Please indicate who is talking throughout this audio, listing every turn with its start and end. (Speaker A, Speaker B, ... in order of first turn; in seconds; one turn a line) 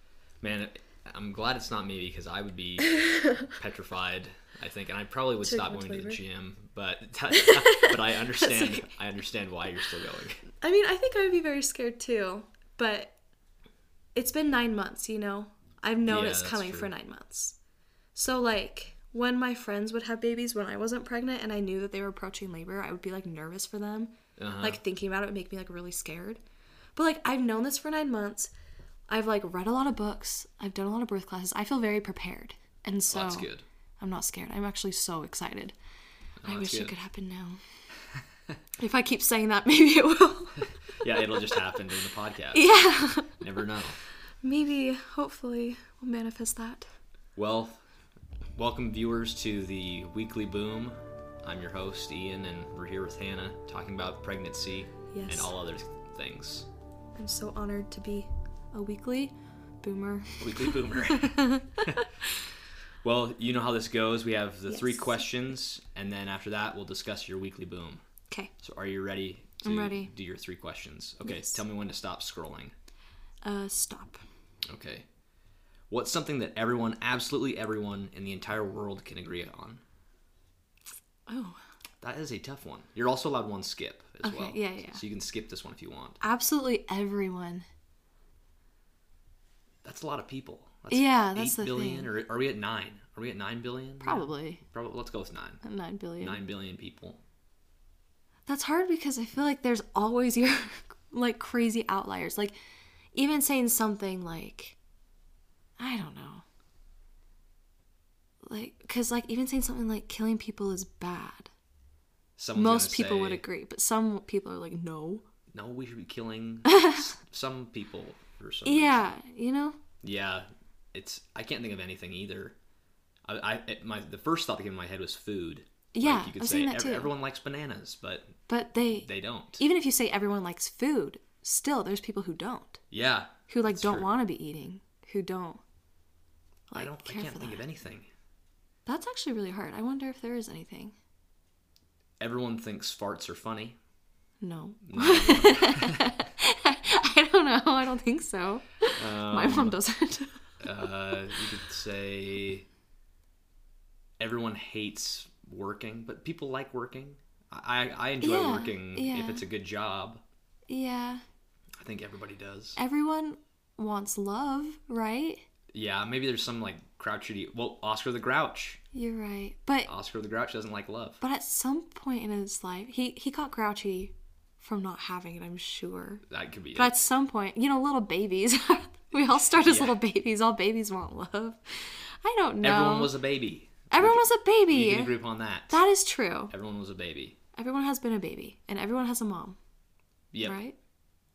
Speaker A: 0.4-10.5
Speaker B: 2.9-3.5
Speaker B: 5.4-6.2
Speaker B: 7.3-8.9
Speaker B: 10.6-13.2
Speaker B: 14.2-17.6
Speaker A: 16.1-16.9
Speaker B: 18.1-26.4
Speaker A: 24.4-24.8
Speaker B: 27.0-28.5
Speaker B: 29.1-35.8
Speaker A: 33.1-33.6
Speaker A: 36.4-37.0
Speaker B: 36.5-37.6
Speaker B: 38.8-41.6
Speaker A: 41.0-42.7
Speaker B: 42.5-43.4
Speaker A: 43.4-44.0
Speaker B: 44.4-46.9
Speaker A: 47.4-47.8
Speaker A: 48.6-56.7
Speaker B: 55.1-55.5
Speaker B: 57.1-62.1
Speaker A: 60.4-62.1
Speaker A: 63.0-68.0
Speaker B: 64.7-65.2
Speaker A: 68.6-72.7
Speaker B: 69.6-70.1
Speaker B: 71.2-71.6
Speaker B: 73.4-74.2
Speaker A: 74.7-75.1
Speaker A: 75.9-79.8
Speaker B: 81.3-81.6
Speaker A: 82.0-86.2
Speaker B: 84.2-85.0
Speaker B: 86.2-87.7
Speaker A: 89.8-95.6
Speaker B: 90.9-92.1
Speaker B: 94.0-94.6
Speaker B: 95.6-96.4
Speaker A: 96.2-97.2
Speaker B: 98.5-102.5
Speaker B: 103.1-104.8
Speaker B: 105.8-106.4
Speaker B: 108.5-111.5
Speaker A: 112.4-113.4
Speaker B: 112.5-115.2
Speaker A: 115.5-119.1
Speaker B: 116.7-117.0
Speaker B: 118.7-119.8
Speaker A: 120.0-122.6
Speaker A: 123.3-128.4
Speaker B: 125.9-127.1
Speaker B: 128.5-132.8
Speaker A: 129.0-129.6
Speaker A: 132.9-134.1
Speaker B: 133.5-135.6
Speaker B: 136.7-137.6
Speaker A: 136.7-138.1
Speaker B: 138.9-140.9
Speaker A: 142.2-143.8
Speaker B: 144.4-150.4
Speaker A: 144.8-146.2
Speaker A: 148.9-149.8
Speaker A: 150.6-152.7
Speaker A: 154.2-160.2
Speaker B: 158.2-159.5
Speaker B: 160.7-161.2
Speaker A: 161.8-162.8
Speaker B: 162.8-165.4
Speaker A: 165.7-168.8
Speaker B: 168.9-169.9
Speaker A: 169.9-171.2
Speaker B: 171.2-176.2
Speaker A: 176.3-177.0
Speaker B: 176.8-183.1
Speaker A: 179.6-180.0
Speaker A: 182.6-185.8
Speaker B: 183.9-185.2
Speaker B: 185.7-186.5
Speaker A: 186.5-187.4
Speaker B: 187.6-189.6
Speaker A: 190.3-190.6
Speaker B: 190.4-190.8